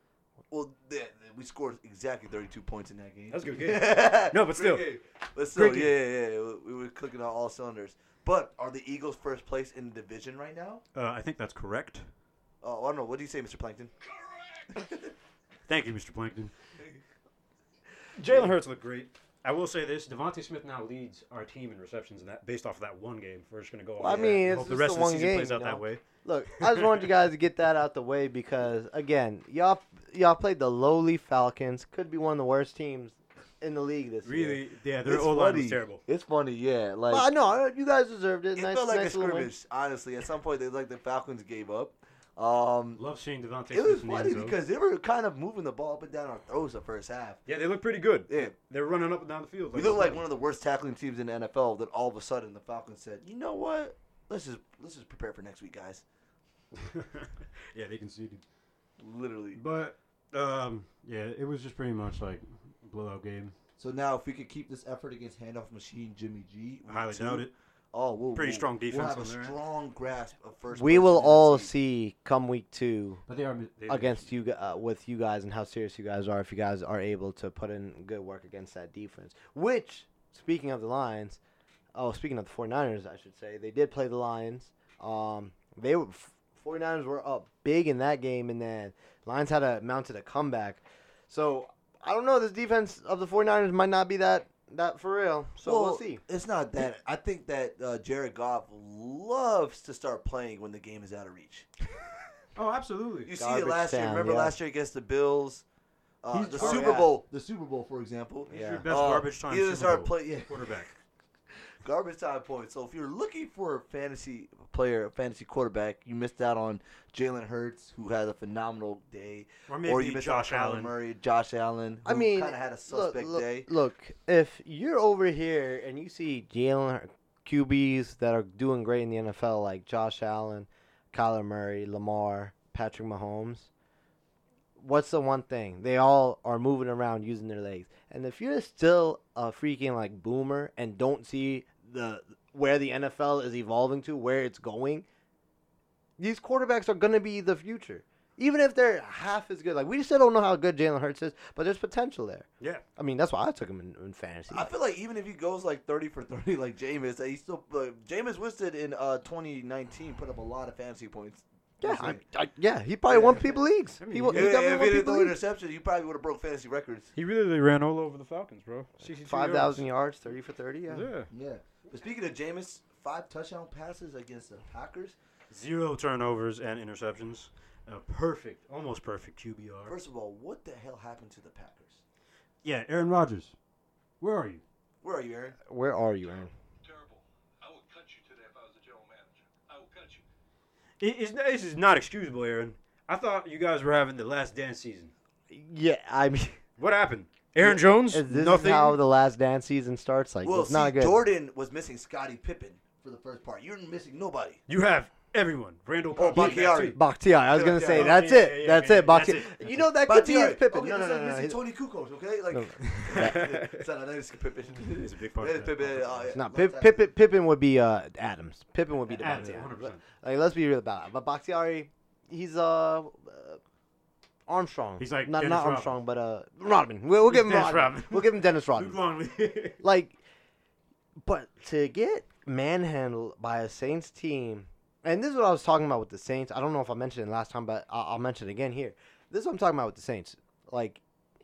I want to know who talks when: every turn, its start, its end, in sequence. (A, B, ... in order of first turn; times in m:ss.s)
0:00.5-0:10.8 A
0:03.3-0:05.0 B
0:05.5-0:05.9 B
0:10.9-0:12.0 B
0:12.6-0:13.9 A
0:14.7-0:15.1 A
0:15.7-0:16.5 B
0:18.2-0:26.0 B
0:24.0-0:34.6 C
0:26.6-0:27.0 B
0:34.2-0:36.0 B
0:35.0-0:37.3 A
0:37.1-0:39.5 C
0:38.6-0:43.0 A
0:43.0-0:44.6 B
0:43.7-0:47.4 A
0:47.4-0:50.2 B
0:49.7-0:56.0 A
0:56.7-0:58.4 B
0:59.0-0:59.6 A
0:59.5-1:03.5 B
1:03.8-1:11.7 A
1:06.9-1:07.5 B
1:08.3-1:09.5 B
1:10.7-1:13.2 C
1:13.3-1:14.3 B
1:13.9-1:21.4 C
1:21.9-1:36.2 C
1:35.6-1:41.7 A
1:42.6-1:43.3 B
1:43.2-1:45.6 A
1:43.4-1:44.5 C
1:46.2-1:50.7 A
1:46.3-1:47.0 B
1:46.6-1:47.1 C
1:48.5-1:48.8 C
1:48.5-1:50.9 B
1:51.8-2:03.7 A
1:59.7-2:00.9 B
2:02.0-2:13.7 C
2:14.8-2:25.0 C
2:26.2-2:34.7 C
2:34.5-2:42.2 A
2:41.8-2:45.4 C
2:43.1-2:44.5 B
2:44.3-2:47.1 A
2:47.1-2:49.9 B
2:49.0-2:51.1 C
2:50.9-2:51.3 B
2:51.3-2:55.2 A
2:55.5-3:00.0 B
2:59.9-3:02.0 A
3:02.6-3:03.6 B
3:04.2-3:04.6 B
3:05.0-3:05.6 A
3:05.7-3:06.5 C
3:06.8-3:10.2 D
3:11.0-3:15.1 B
3:15.5-3:16.6 C
3:16.8-3:19.0 B
3:17.6-3:21.2 C
3:20.4-3:24.6 A
3:24.7-3:27.0 B
3:26.2-3:27.0 A
3:26.3-3:31.6 C
3:27.5-3:29.9 B
3:27.6-3:28.2 A
3:30.0-3:37.1 A
3:32.5-3:33.5 C
3:33.1-3:33.8 B
3:34.8-3:36.3 B
3:36.3-3:43.6 C
3:39.1-3:40.0 B
3:44.5-3:49.0 C
3:45.0-3:46.0 B
3:47.2-3:49.8 B
3:49.8-3:50.1 C
3:51.2-4:01.0 C